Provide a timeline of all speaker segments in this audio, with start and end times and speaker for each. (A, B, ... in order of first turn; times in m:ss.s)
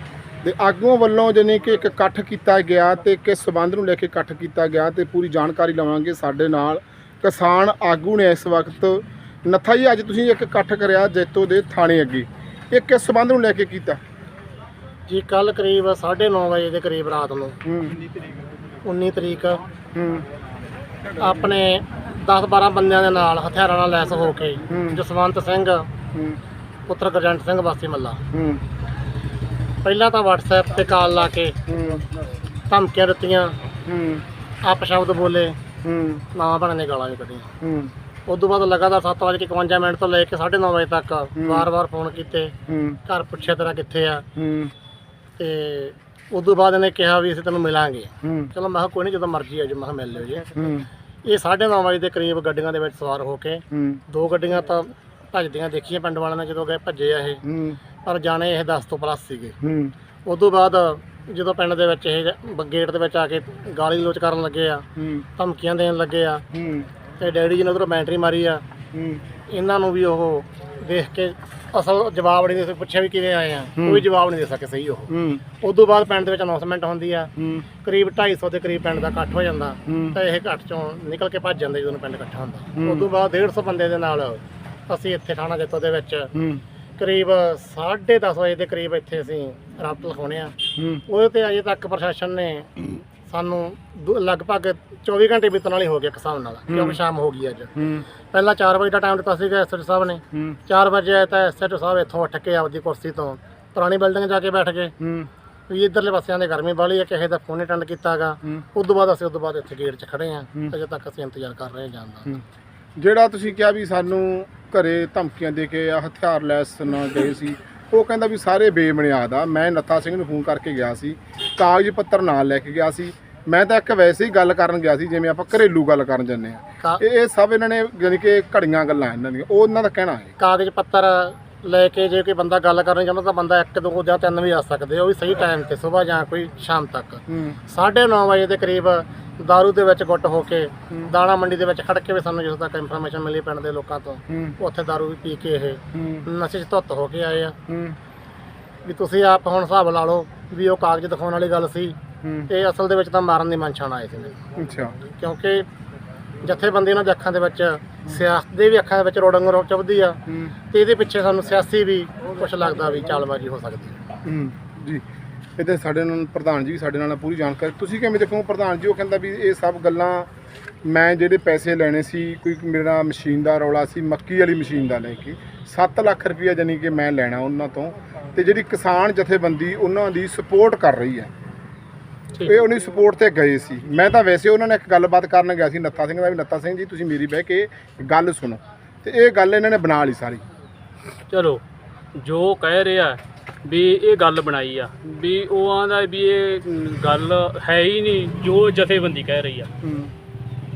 0:00.4-0:14.0 A
0:15.1-0:17.6 B
0:17.6-0:18.0 A
0:18.8-0:19.6 B
0:19.9-0:20.2 A
0:21.2-0:25.9 B
0:24.7-0:25.0 A
0:26.1-0:26.4 A
0:26.9-0:28.2 B
0:28.3-0:28.6 A
0:29.8-0:31.6 B
0:31.7-0:32.0 A
0:32.7-0:33.6 B
0:33.8-0:34.2 A
0:34.6-0:35.6 B
0:35.8-0:36.2 A
0:36.3-0:37.5 B
0:37.6-0:37.9 A
0:38.2-0:44.2 B
0:41.4-0:41.7 A
0:42.6-0:43.0 A
0:44.4-0:44.7 A
0:45.4-0:50.5 B
0:48.2-0:48.5 A
0:50.5-0:50.9 A
0:51.2-0:57.4 B
0:53.7-0:54.0 A
0:57.4-0:57.8 A
0:58.0-0:59.6 B
0:59.6-0:59.9 A
1:00.2-1:06.4 B
1:05.0-1:05.2 A
1:06.5-1:06.9 A
1:07.2-1:08.6 B
1:08.9-1:09.2 A
1:09.5-1:17.3 B
1:13.8-1:14.1 A
1:15.1-1:15.4 A
1:17.4-1:17.7 A
1:17.8-1:26.3 B
1:19.9-1:20.2 A
1:22.8-1:23.1 A
1:26.3-1:26.6 A
1:27.0-1:30.6 B
1:30.8-1:31.0 A
1:31.1-1:32.7 B
1:33.3-1:37.7 B
1:36.7-1:37.0 A
1:37.8-1:38.0 A
1:38.3-1:44.9 B
1:40.3-1:40.6 A
1:45.0-1:45.3 A
1:45.7-1:52.4 B
1:53.0-2:10.3 A
2:10.4-2:27.6 B
2:17.3-2:17.6 A
2:24.3-2:24.6 A
2:25.9-2:26.2 A
2:27.7-2:28.0 A
2:28.8-2:34.4 B
2:32.2-2:32.5 A
2:34.6-2:35.0 A
2:35.0-2:35.7 B
2:36.4-2:44.0 B
2:40.3-2:40.5 A
2:44.2-2:45.0 A
2:45.6-2:50.3 A
2:50.8-3:01.3 A
3:02.4-3:10.4 A
3:11.3-3:11.6 C
3:12.1-3:19.7 C
3:19.8-3:20.1 A